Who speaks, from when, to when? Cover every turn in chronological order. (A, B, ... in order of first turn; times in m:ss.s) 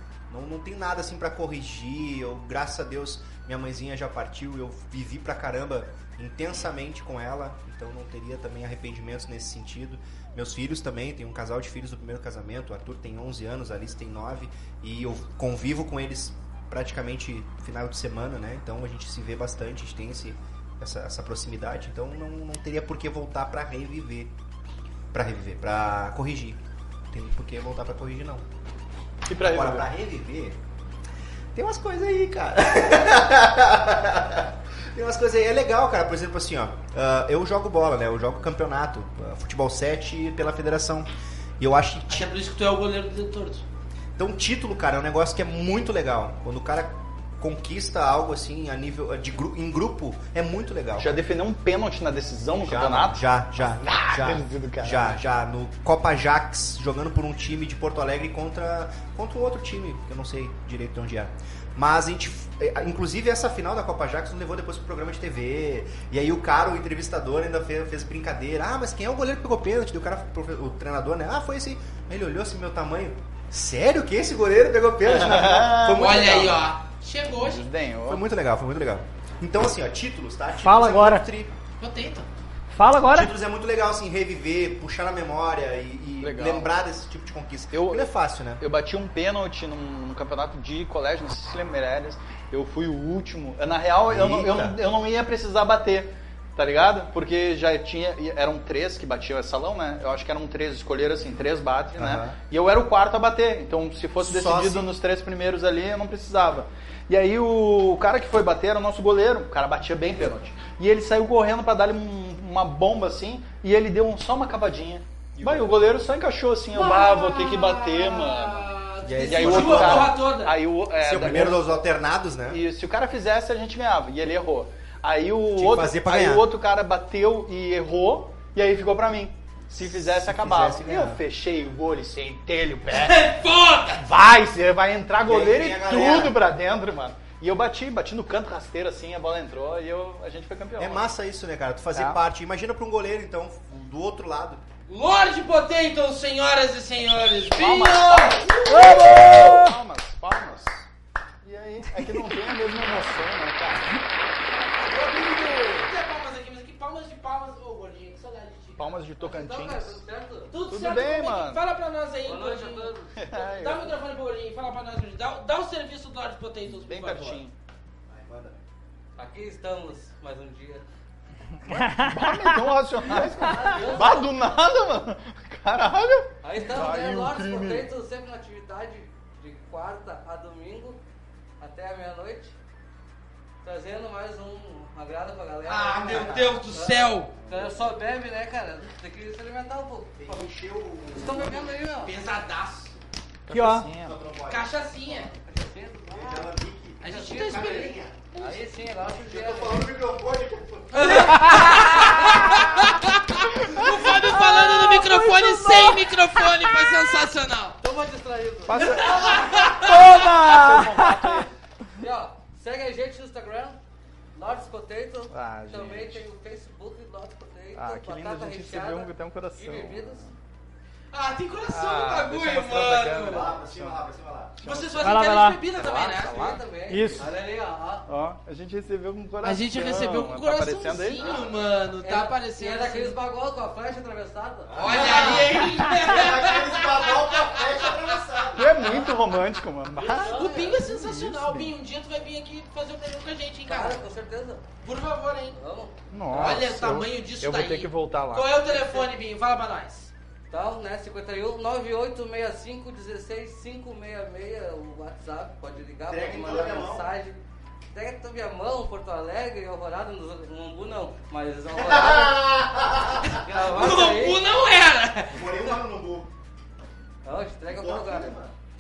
0:00.3-0:24.3 A
0:25.1-0:26.6 A
0:27.1-0:28.4 A
0:29.3-0:29.9 B
0:29.4-0:30.6 A
0:31.6-0:42.3 A
0:42.1-0:43.6 C
0:44.2-0:51.2 A
0:51.0-0:55.2 B
0:52.6-1:16.7 A
1:15.0-1:16.2 B
1:15.9-1:17.6 C
1:17.4-1:18.2 B
1:18.1-1:21.5 A
1:20.6-1:21.3 D
1:21.8-1:22.3 C
1:22.7-1:23.3 D
1:23.1-1:28.6 A
1:26.2-1:26.8 B
1:27.7-2:01.9 B
1:34.1-1:34.8 A
1:42.0-1:42.4 A
1:44.2-1:44.9 A
1:55.4-1:55.8 A
1:56.7-2:00.6 C
1:59.0-2:00.2 A
2:01.0-2:02.6 A
2:02.5-2:13.3 B
2:05.5-2:06.5 A
2:10.0-2:11.2 A
2:12.9-2:14.0 C
2:13.9-2:21.1 B
2:15.2-2:16.4 A
2:20.8-2:24.6 A
2:21.9-2:22.2 B
2:24.9-2:29.0 C
2:27.5-2:30.9 B
2:28.7-2:29.8 D
2:31.4-2:34.0 B
2:34.7-2:39.0 C
2:35.3-2:35.6 B
2:38.8-2:40.0 B
2:39.2-2:40.5 E
2:40.5-2:47.4 C
2:40.7-2:41.6 B
2:42.2-2:43.1 E
2:43.2-2:43.9 B
2:46.7-2:47.6 B
2:48.1-2:48.6 A
2:49.2-2:50.8 E
2:51.6-2:57.9 B
2:51.7-2:52.6 D
2:53.4-2:54.3 E
2:56.4-3:01.0 E
3:01.6-3:02.5 E
3:03.6-3:10.5 E
3:05.6-3:07.4 C
3:06.1-3:06.5 A
3:10.2-3:11.8 A
3:11.1-3:12.1 E
3:12.0-3:13.0 C
3:13.5-3:14.2 B
3:13.5-3:13.9 D
3:14.0-3:15.3 A
3:14.5-3:15.3 C
3:15.4-3:16.5 E
3:16.1-3:18.5 A
3:17.0-3:17.9 C
3:17.1-3:19.9 E
3:19.1-3:21.6 A
3:20.9-3:27.8 C
3:24.2-3:26.7 D
3:27.8-3:29.8 E
3:28.7-3:31.5 B
3:28.8-3:30.0 C
3:29.7-3:31.4 D
3:32.0-3:33.8 E
3:34.4-3:40.3 E
3:35.3-3:36.2 B
3:37.8-3:40.3 B
3:41.1-3:43.5 C
3:41.7-3:44.0 B
3:43.2-3:44.6 A
3:44.6-3:45.2 B
3:44.6-3:46.5 C
3:45.0-3:45.6 D
3:45.8-3:46.6 B
3:46.2-3:48.1 E
3:46.9-3:47.3 D
3:48.1-3:51.3 B
3:49.4-3:53.2 C
3:51.2-3:51.5 A
3:52.0-3:55.5 E
3:54.7-3:59.0 A
3:54.8-3:59.1 C
3:58.6-4:01.7 B
4:00.0-4:00.8 E
4:00.2-4:04.1 C
4:03.7-4:04.7 E
4:04.8-4:05.6 C
4:05.5-4:06.0 E
4:06.1-4:08.6 B
4:06.3-4:10.1 C
4:10.5-4:17.4 E
4:16.1-4:17.1 A
4:17.9-4:22.5 E
4:21.7-4:23.8 A
4:23.4-4:24.4 E
4:23.5-4:25.8 C
4:25.3-4:26.3 A
4:27.2-4:28.4 E
4:27.7-4:28.5 A